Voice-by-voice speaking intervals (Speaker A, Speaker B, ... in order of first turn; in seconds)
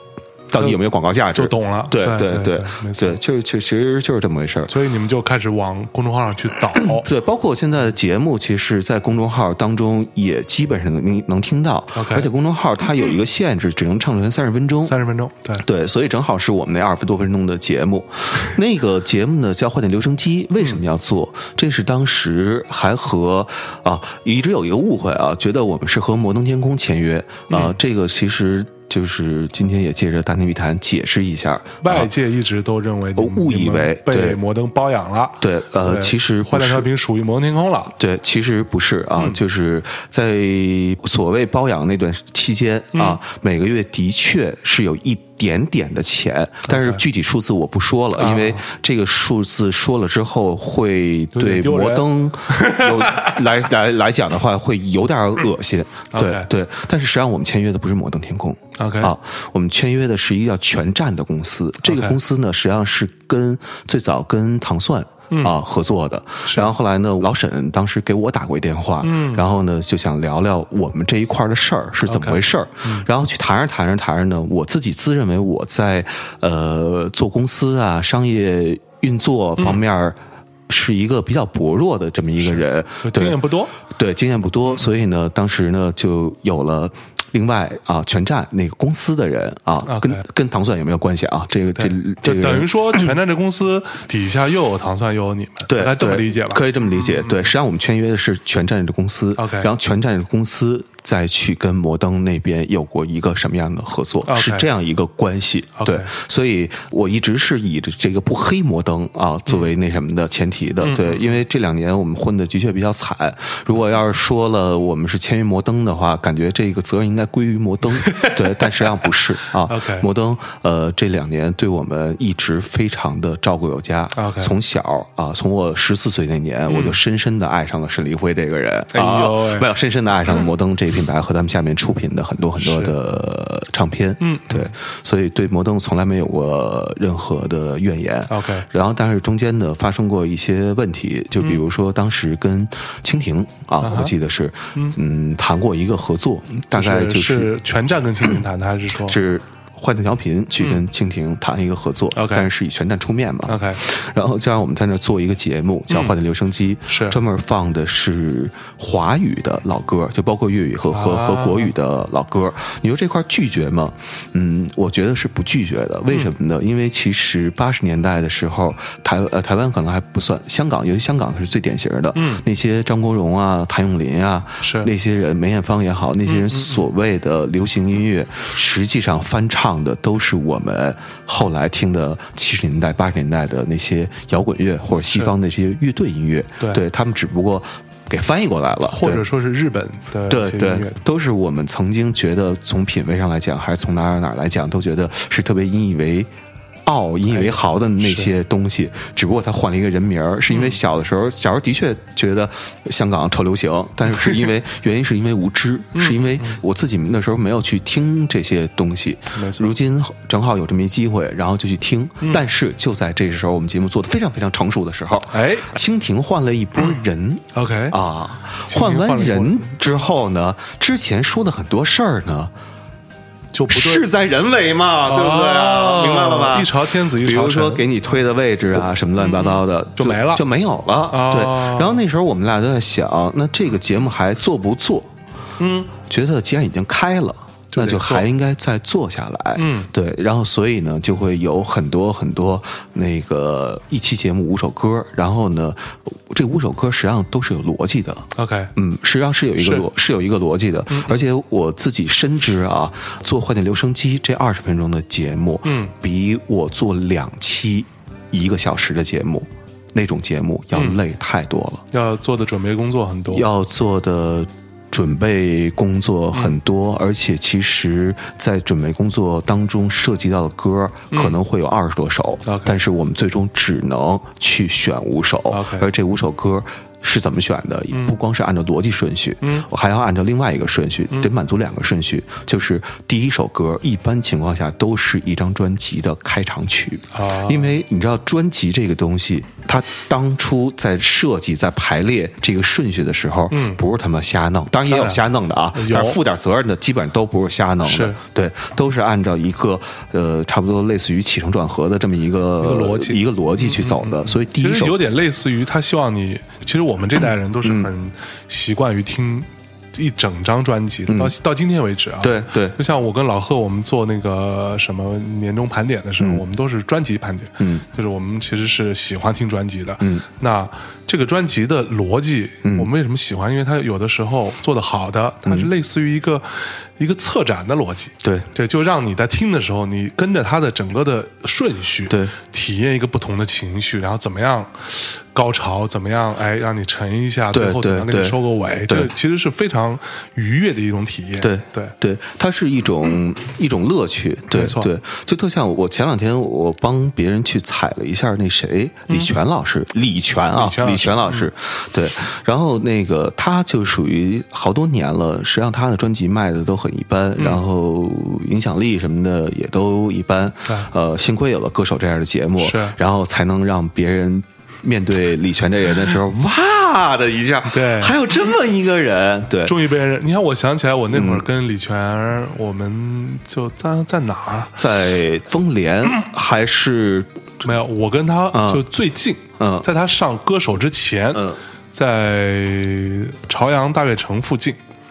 Speaker A: 0.5-4.7, 6.8-15.0, 15.6-32.1, 33.2-34.4, 35.4-36.9, 38.0-93.1, 95.7-147.5, 149.1-189.2, 190.3-196.3, 196.8-222.5, 223.7-235.1, 236.0-261.9, 263.3-305.0, 307.6-307.9, 311.1-311.4, 312.2-312.8, 317.6-317.9, 322.6-322.9, 328.2-328.5, 332.1-332.3, 337.5-339.1, 341.4-369.8, 371.1-371.4, 374.8-377.6, 378.5-378.9, 379.6-379.9, 381.3-381.6
Speaker B: 1.3-3.2, 4.7-7.1, 11.9-12.3, 14.9-15.7, 27.5-27.8, 31.8-37.9, 46.7-47.0, 48.1-48.6, 51.3-53.4, 56.1-56.5, 58.8-59.1, 61.8-62.2, 66.5-66.7, 69.0-69.4, 72.0-73.1, 82.4-83.7, 89.9-90.2, 91.8-97.4, 99.4-99.7, 104.3-104.7, 105.8-106.1, 110.8-111.3, 118.0-118.6, 119.7-120.1, 124.2-124.5, 126.7-127.0, 128.9-129.7, 132.6-133.0, 134.2-134.7, 138.3-138.7, 143.8-144.1, 146.7-149.2, 152.1-152.5, 153.5-153.8, 155.9-156.2, 156.9-157.2, 160.9-161.7, 172.2-172.4, 174.6-174.9, 176.3-176.8, 188.9-191.0, 197.3-198.3, 200.5-200.8, 205.9-206.6, 209.3-209.7, 215.3-215.8, 217.5-218.0, 218.7-220.0, 223.5-224.1, 225.1-227.9, 229.2-230.4, 231.1-232.0, 235.6-235.9, 237.7-238.3, 239.6-239.9, 248.3-248.7, 249.6-249.9, 250.9-251.2, 255.7-255.9, 261.9-263.5, 272.5-272.8, 275.5-275.9, 277.9-278.2, 279.4-279.7, 287.1-287.8, 293.5-293.8, 294.9-295.2, 295.7-296.2, 297.9-298.2, 302.6-341.9, 344.5-344.9, 350.5-351.5, 362.6-363.0, 367.7-368.2, 369.6-374.8, 377.6-384.8